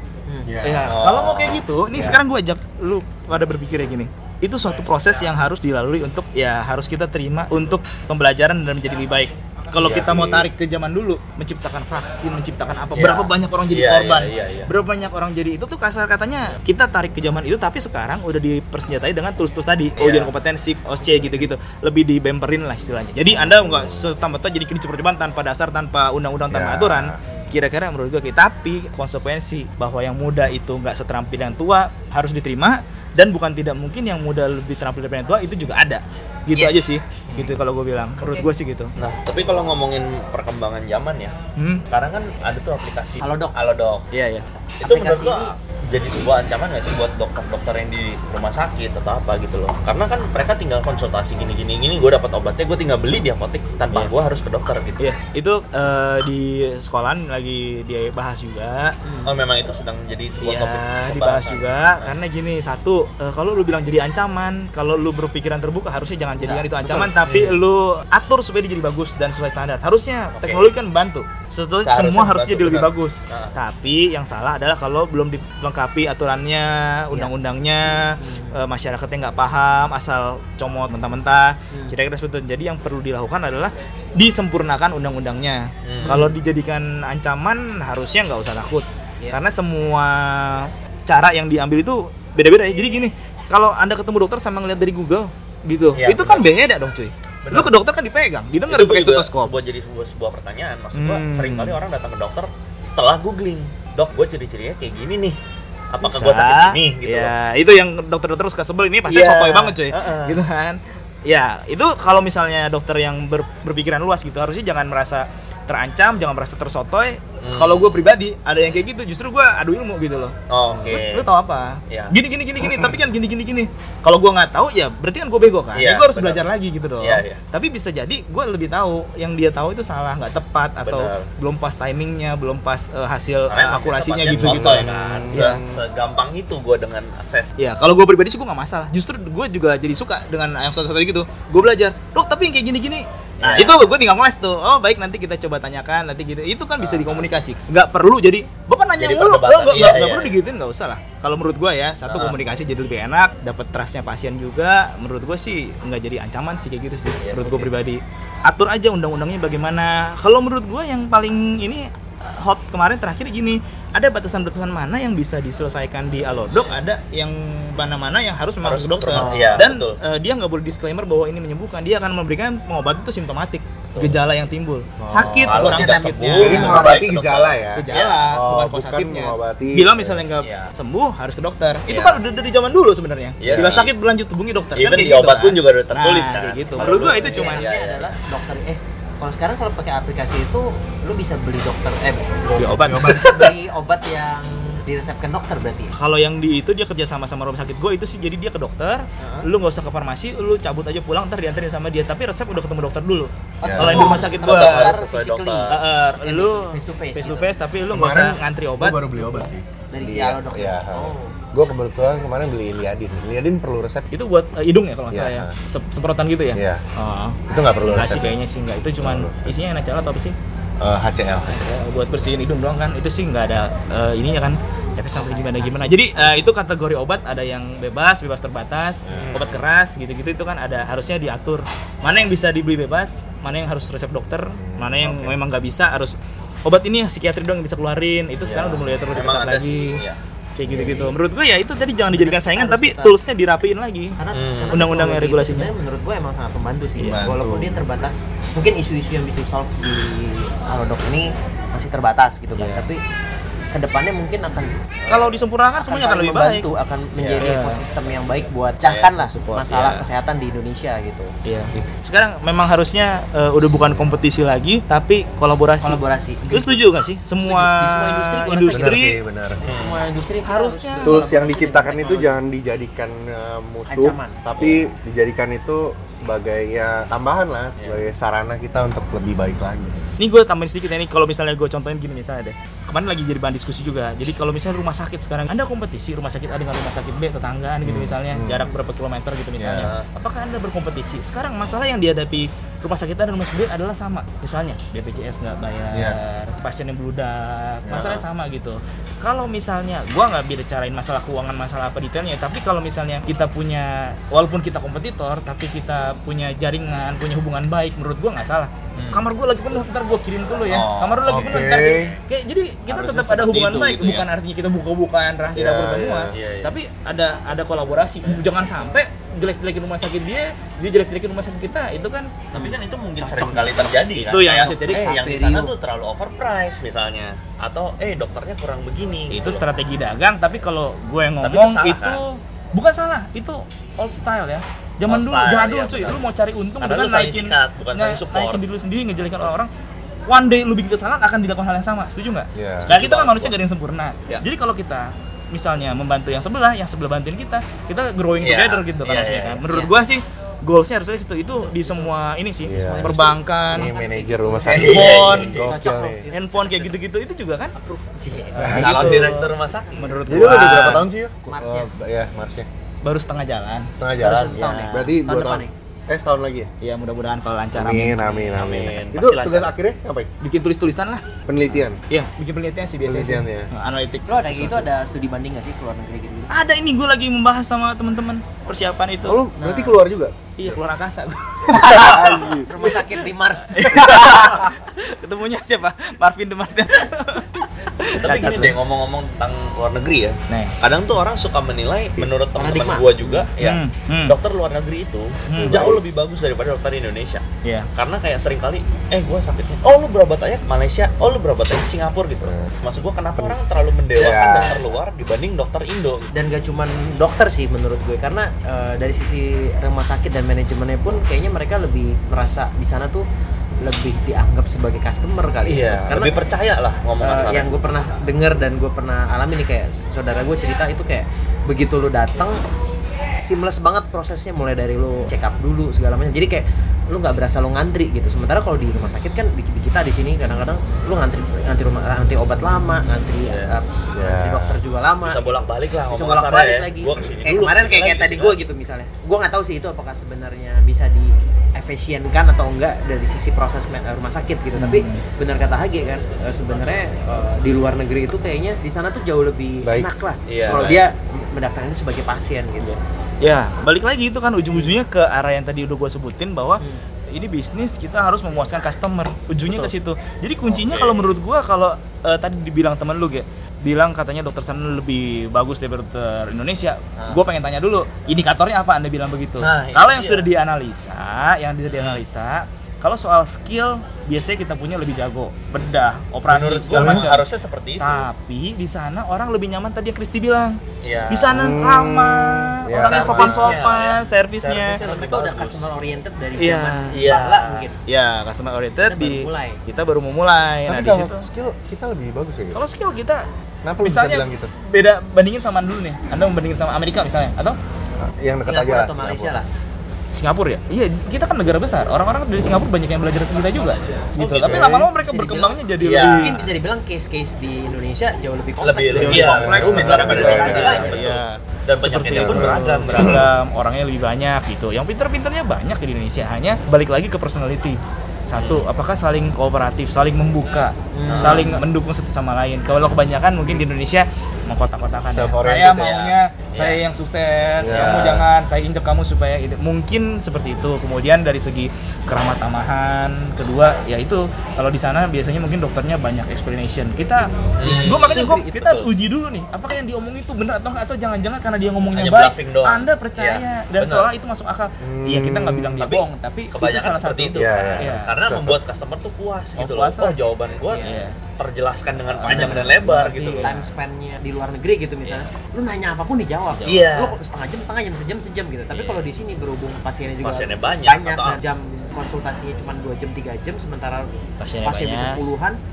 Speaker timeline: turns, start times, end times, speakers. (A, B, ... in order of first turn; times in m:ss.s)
0:00.4-0:01.1 A
0:00.6-0:38.9 B
0:00.9-0:01.6 C
0:09.7-0:10.4 C
0:12.9-0:14.7 C
0:20.0-0:20.3 C
0:23.4-0:24.0 A
0:26.5-0:27.2 A
0:36.5-0:37.5 D
0:39.0-0:41.4 C
0:41.6-0:41.8 B
0:41.9-0:44.1 C
0:43.2-0:43.6 D
0:44.1-0:44.4 B
0:44.6-0:45.5 D
0:44.8-0:55.1 C
0:55.0-0:59.0 B
0:59.0-0:59.3 D
0:59.2-1:02.1 C
1:00.4-1:39.5 B
1:06.4-1:07.6 D
1:10.4-1:10.6 C
1:11.8-1:13.6 C
1:18.2-1:18.6 D
1:25.8-1:26.2 C
1:26.0-1:26.3 D
1:36.0-1:36.4 C
1:37.4-1:37.7 C
1:38.7-1:45.4 C
1:40.9-1:41.8 B
1:45.9-1:47.3 C
1:46.0-2:15.6 B
1:49.0-1:50.4 C
1:57.4-1:58.0 C
2:00.5-2:01.3 C
2:01.9-2:02.2 C
2:05.7-2:06.5 C
2:07.0-2:07.4 C
2:10.8-2:11.3 C
2:13.5-2:17.5 C
2:14.3-2:15.8 A
2:17.6-2:56.9 B
2:23.4-2:23.8 C
2:26.8-2:27.2 C
2:29.0-2:30.4 C
2:32.0-2:32.4 C
2:37.2-2:37.7 C
2:48.6-2:50.0 C
2:49.2-2:49.5 D
2:49.2-2:49.6 A
2:55.0-3:00.2 A
2:55.4-2:58.2 C
2:55.6-2:56.8 D
2:57.7-3:07.7 B
3:00.4-3:00.7 C
3:01.9-3:02.2 C
3:03.4-3:03.9 C
3:03.4-3:03.8 A
3:04.8-3:08.1 C
3:06.8-3:16.0 D
3:12.4-3:13.5 A
3:12.6-3:13.5 B
3:15.9-3:24.9 B
3:19.2-3:19.5 D
3:23.6-3:27.5 D
3:23.6-3:24.1 A
3:23.8-3:25.8 C
3:25.7-3:29.5 B
3:27.9-3:34.1 A
3:29.9-3:31.3 D
3:34.1-3:40.4 B
3:35.1-3:35.6 A
3:36.5-3:36.8 A
3:37.5-3:38.4 A
3:39.0-3:39.5 A
3:40.8-3:41.7 A
3:41.5-4:00.0 B
3:45.1-3:46.4 D
3:49.1-3:49.4 A
3:49.2-3:49.5 C
3:54.5-3:55.3 A
3:58.4-4:00.2 C
4:00.6-4:04.2 B
4:00.7-4:01.1 D
4:02.1-4:03.1 D
4:04.2-4:13.0 D
4:04.3-4:04.8 C
4:04.7-4:05.7 B
4:07.0-4:07.8 A
4:13.7-4:21.3 D
4:15.1-4:16.6 B
4:17.2-4:17.5 C
4:17.4-4:17.8 B
4:18.8-4:19.1 C
4:19.2-4:20.0 B
4:21.4-4:29.2 B
4:25.8-4:26.8 D
4:27.4-4:29.0 D
4:28.7-4:29.6 A
4:29.6-4:32.4 D
4:29.7-4:30.0 C
4:30.4-4:31.3 B
4:31.0-4:40.0 A
4:33.9-4:34.4 D
4:37.8-4:38.1 C
4:40.2-5:22.6 B
4:47.8-4:48.6 A
4:49.6-4:49.9 A
4:49.8-4:50.1 C
4:55.9-4:56.2 A
4:57.8-4:58.2 A
5:08.9-5:09.2 C
5:10.6-5:11.7 C
5:11.3-5:12.2 A
5:12.9-5:14.3 C
5:15.5-5:16.4 A
5:16.3-5:16.7 C
5:22.5-5:29.6 C
5:23.4-5:25.4 B
5:24.8-5:25.7 D
5:29.3-5:39.7 B
5:31.4-5:32.2 C
5:35.0-5:36.2 C
5:36.8-5:38.6 C
5:40.3-5:53.9 B
5:42.5-5:42.9 A
5:42.8-5:43.5 C
5:48.4-5:49.6 C
5:49.7-5:49.9 D
5:51.6-5:52.1 D
5:52.6-5:53.2 A
5:52.6-5:56.9 D
5:53.7-5:56.2 A
5:54.7-5:55.6 C
5:54.8-5:55.6 B
5:56.3-5:57.8 B
5:57.8-6:00.2 D
5:58.5-6:01.1 B
5:58.6-5:59.2 A
5:58.8-6:00.8 C
6:00.3-6:02.7 A
6:01.4-6:01.9 D
6:03.0-6:03.9 B
6:04.0-6:06.7 A
6:04.2-6:05.7 D
6:04.5-6:05.2 B
6:06.8-6:08.6 B
6:07.7-6:10.3 A
6:08.2-6:09.7 C
6:10.4-6:11.2 B
6:11.5-6:12.0 A
6:12.1-6:14.9 B
6:13.0-6:13.7 A
6:14.3-6:16.5 D
6:16.5-6:20.0 B
6:19.2-6:20.7 A
6:20.6-6:22.6 B
6:21.7-6:23.1 A
6:22.7-6:23.8 D
6:23.7-6:28.8 B
6:28.2-6:37.4 C
6:30.5-6:30.7 B
6:32.5-6:33.5 D
6:33.6-6:34.4 B
6:35.5-6:36.0 B
6:35.6-6:36.0 A
6:37.9-6:46.3 C
6:42.4-6:42.7 A
6:44.1-6:45.0 A
6:46.3-6:53.2 D
6:53.8-6:56.3 D
6:55.6-6:57.7 C
6:57.2-7:02.6 D
7:03.4-7:15.4 D
7:13.4-7:13.8 C
7:14.1-7:14.8 A
7:15.2-7:18.6 C
7:16.1-7:33.0 D
7:24.7-7:25.2 B
7:30.5-7:31.0 C
7:33.4-7:57.5 B
7:40.7-7:41.3 C
7:49.6-7:50.4 C
7:51.9-7:52.2 C
7:56.5-7:58.3 C
7:56.9-7:57.3 A
7:58.0-8:05.0 B
8:01.0-8:01.6 C
8:01.5-8:03.8 A
8:02.9-8:05.9 C
8:04.9-8:08.0 D
8:06.6-8:07.4 B
8:07.1-8:07.9 C
8:08.1-8:11.4 B
8:09.0-8:09.8 D
8:10.9-8:12.8 A
8:12.7-8:13.4 B
8:13.8-8:14.7 A
8:14.0-8:17.8 B
8:18.2-8:19.6 A
8:18.6-8:19.7 D
8:20.3-8:26.6 B
8:23.8-8:25.0 C
8:24.6-8:24.9 A
8:25.2-8:25.8 D
8:26.0-8:26.6 C
8:26.4-8:31.1 D
8:28.8-8:33.5 C
8:29.1-9:08.4 B
8:29.4-8:31.3 A
8:32.3-8:33.4 A
8:38.5-8:38.9 C
8:41.1-8:41.8 D
8:41.3-8:41.8 C
8:45.3-8:46.1 A
8:45.9-8:47.0 C
8:47.8-8:48.4 A
8:47.9-8:48.4 C
8:57.8-8:59.1 C
8:57.9-8:58.7 D
9:02.1-9:04.3 C
9:05.0-9:06.1 A
9:06.0-9:13.8 C
9:07.5-9:08.8 A
9:09.8-9:10.4 B
9:10.8-9:11.1 D
9:11.0-9:11.4 B
9:12.3-9:13.8 B
9:12.5-9:12.8 D
9:13.6-9:24.3 D
9:16.7-9:17.1 B
9:16.8-9:17.4 C
9:18.9-9:19.2 C
9:20.4-9:21.6 C
9:24.6-9:25.4 B
9:24.8-9:25.8 D